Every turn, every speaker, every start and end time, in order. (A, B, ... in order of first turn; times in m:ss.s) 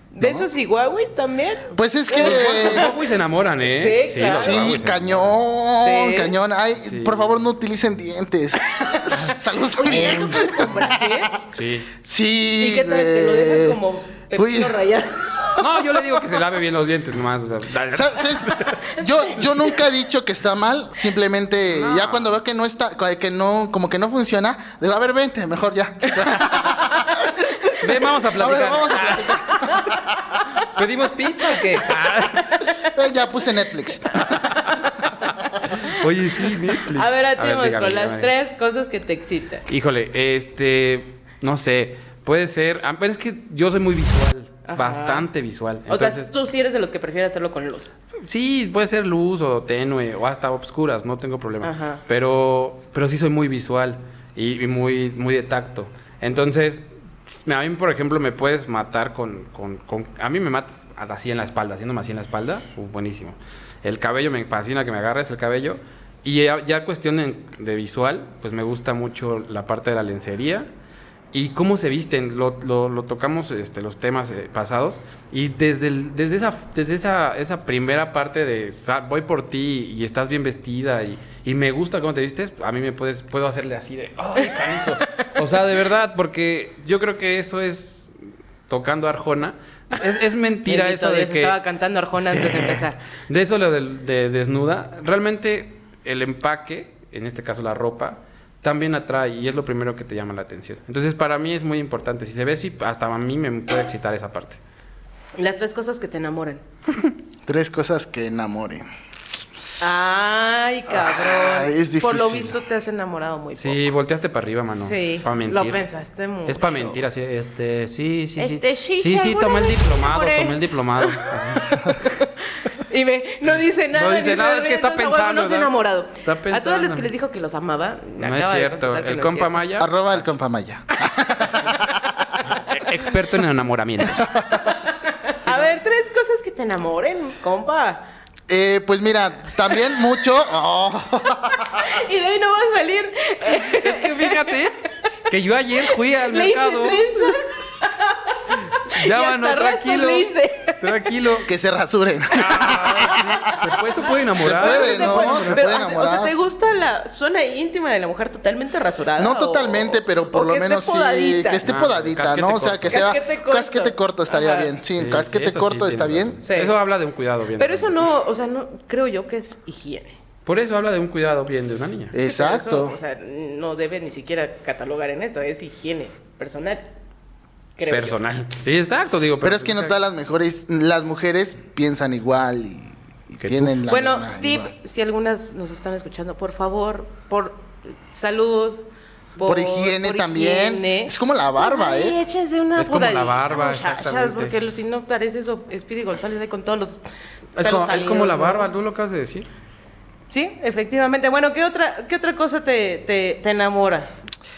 0:00.1-0:03.0 A
0:00.2-0:00.5 B
0:01.7-0:02.9 B
0:02.2-0:05.4 C
0:03.6-0:04.7 A
0:04.2-0:11.3 B
0:05.8-0:06.3 A
0:06.8-0:07.4 C
0:08.8-0:11.5 A
0:11.5-0:11.9 C
0:12.0-0:13.8 B
0:12.6-0:16.3 A
0:14.3-0:14.8 B
0:15.6-0:18.8 C
0:17.9-0:27.6 B
0:18.5-0:19.7 A
0:21.7-0:22.4 C
0:26.1-0:26.5 C
0:26.7-0:27.1 A
0:27.7-0:29.4 C
0:28.4-0:30.1 B
0:29.1-0:30.5 A
0:30.6-0:32.7 C
0:32.3-0:32.9 A
0:32.9-0:34.6 B
0:34.2-0:38.3 C
0:34.3-0:36.0 A
0:36.8-0:39.6 A
0:39.7-0:46.3 C
0:44.6-0:45.3 A
0:45.9-0:47.9 A
0:48.2-1:10.7 C
0:51.6-0:52.0 A
1:11.3-1:28.1 C
1:25.0-1:25.3 A
1:28.7-1:31.6 C
1:30.6-1:33.0 A
1:32.2-1:44.6 C
1:45.4-1:46.6 A
1:47.4-1:48.9 B
1:49.8-1:53.9 A
1:50.9-1:52.5 B
1:53.6-1:55.8 C
1:54.7-1:57.0 A
1:56.4-2:02.1 C
1:58.4-2:09.6 A
2:03.4-2:07.1 C
2:08.2-2:10.3 C
2:09.8-2:11.8 B
2:11.4-2:12.5 A
2:12.5-2:14.4 C
2:14.3-2:14.6 B
2:14.5-2:18.1 A
2:18.5-2:21.9 B
2:21.5-2:25.0 A
2:23.5-2:24.8 C
2:25.3-2:27.4 C
2:25.9-2:31.1 A
2:28.8-2:31.5 C
2:31.4-2:33.3 B
2:32.3-2:35.7 C
2:32.6-2:41.6 A
2:34.4-2:36.3 B
2:39.2-2:46.4 B
2:41.6-2:43.1 C
2:42.9-2:44.7 A
2:44.9-2:48.0 C
2:46.4-2:46.7 A
2:47.6-2:50.2 A
2:50.4-2:52.1 C
2:52.1-2:53.0 B
2:52.2-2:56.9 A
2:57.8-2:58.2 A
2:57.9-2:59.9 C
2:59.4-3:04.7 B
3:03.4-3:03.8 C
3:03.8-3:17.0 A
3:09.4-3:12.2 B
3:12.8-3:14.5 C
3:17.6-3:18.7 A
3:17.6-3:19.5 C
3:20.3-3:24.1 A